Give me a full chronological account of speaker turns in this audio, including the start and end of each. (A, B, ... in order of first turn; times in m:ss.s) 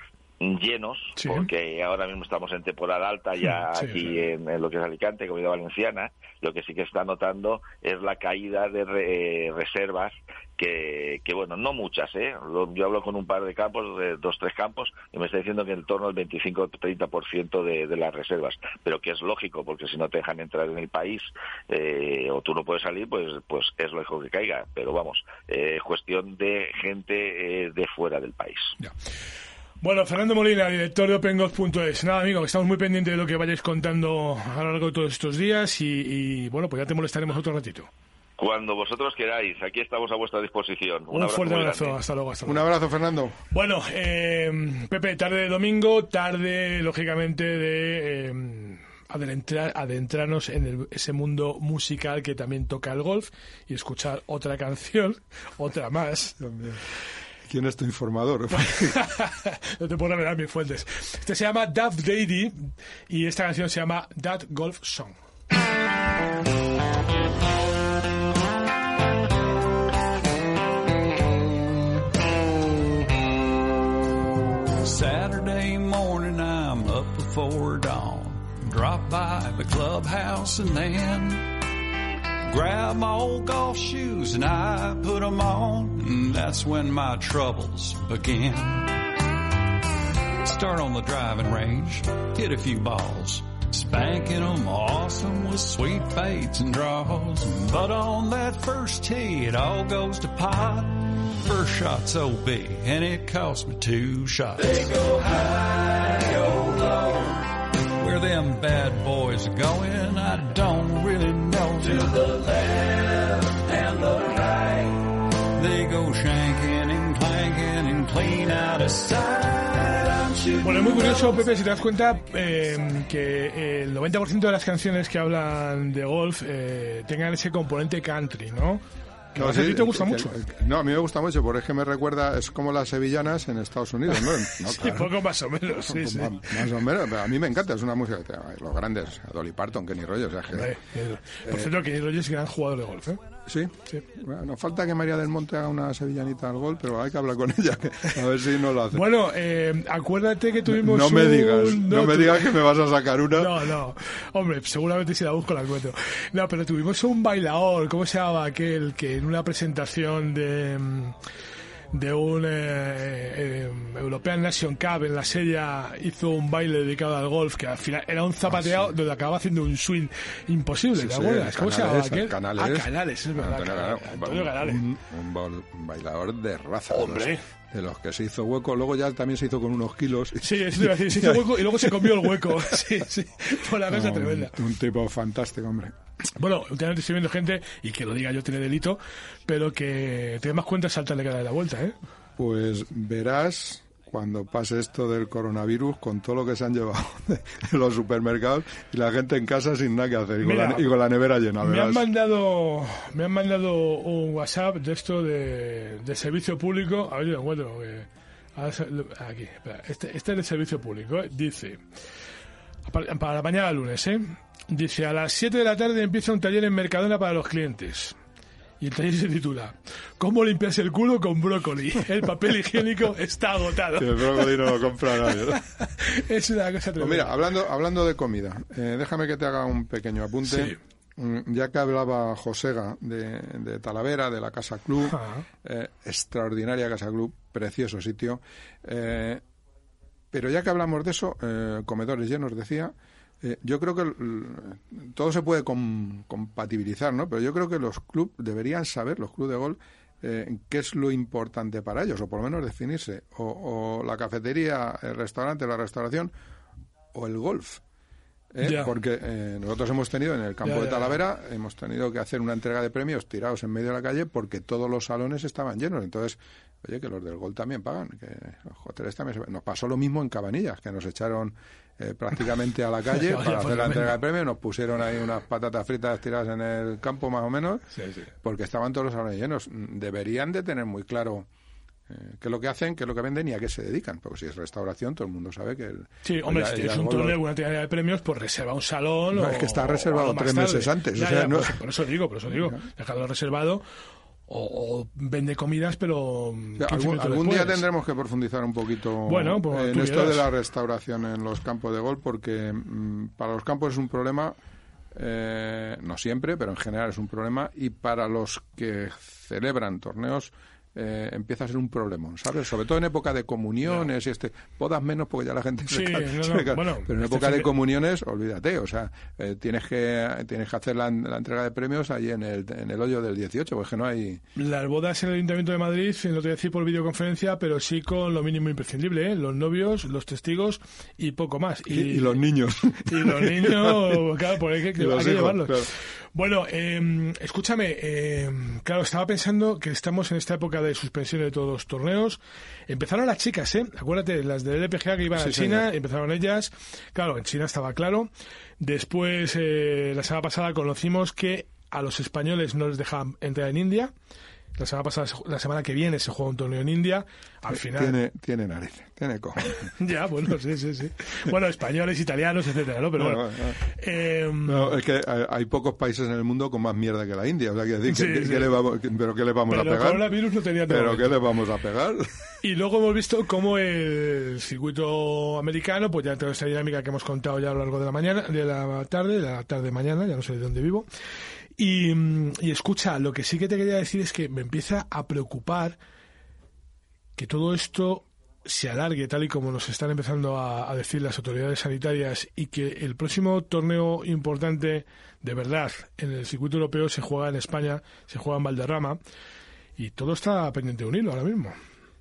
0:00.4-0:28.8 A
0:01.2-0:01.5 B
0:03.7-0:04.1 B
0:29.8-0:37.9 B
0:38.4-0:42.0 A
0:41.1-0:42.7 B
0:42.5-0:43.4 C
0:43.5-0:56.4 B
0:56.4-0:56.8 C
0:57.5-0:59.0 C
0:58.6-1:05.2 B
1:14.8-1:21.5 D
1:22.5-1:29.0 D
1:30.4-1:47.4 D
1:47.9-2:01.4 D
2:00.6-2:10.4 B
2:09.4-2:15.1 C
2:14.2-2:16.5 B
2:15.7-2:20.8 C
2:20.5-2:23.2 B
2:21.4-2:21.8 C
2:23.4-2:29.1 C
2:28.9-2:32.5 B
2:30.7-2:33.7 C
2:33.4-2:41.2 B
2:41.9-2:54.8 B
2:48.5-2:48.9 C
2:51.0-3:02.8 C
2:56.9-2:57.4 B
3:00.4-3:04.6 B
3:03.8-3:06.0 C
3:06.4-3:12.0 B
3:12.4-3:22.1 C
3:20.4-3:21.0 B
3:21.6-3:31.8 B
3:32.9-3:38.2 B
3:38.8-3:44.7 B
3:44.0-3:45.6 C
3:45.2-3:47.4 B
3:47.0-3:59.4 C
3:50.5-3:50.8 B
3:55.1-3:55.4 B
4:00.3-4:16.3 C
4:17.1-4:17.8 C
4:18.5-4:41.5 C
4:18.6-4:18.9 B
4:20.6-4:21.2 B
4:33.1-4:34.2 B
4:38.0-4:38.3 B
4:42.1-4:47.4 C
4:46.2-4:53.8 B
4:49.3-4:51.8 C
4:52.5-4:52.8 C
4:54.5-4:57.8 B
4:56.8-5:04.6 C
4:59.3-5:00.5 B
5:05.1-5:24.4 C
5:15.9-5:17.7 B
5:24.6-5:32.4 B
5:31.9-5:34.3 C
5:33.1-5:54.1 B
5:35.0-5:35.9 C
5:45.3-5:45.9 C
5:54.8-5:58.2 B
5:57.7-5:59.9 C
5:59.9-6:05.0 B
6:03.2-6:03.8 C
6:04.7-6:10.3 C
6:08.1-6:08.8 B
6:09.7-6:11.4 B
6:10.9-6:12.3 C
6:12.6-6:21.1 B
6:21.8-6:26.0 B
6:27.4-6:39.2 B
6:40.0-6:41.8 B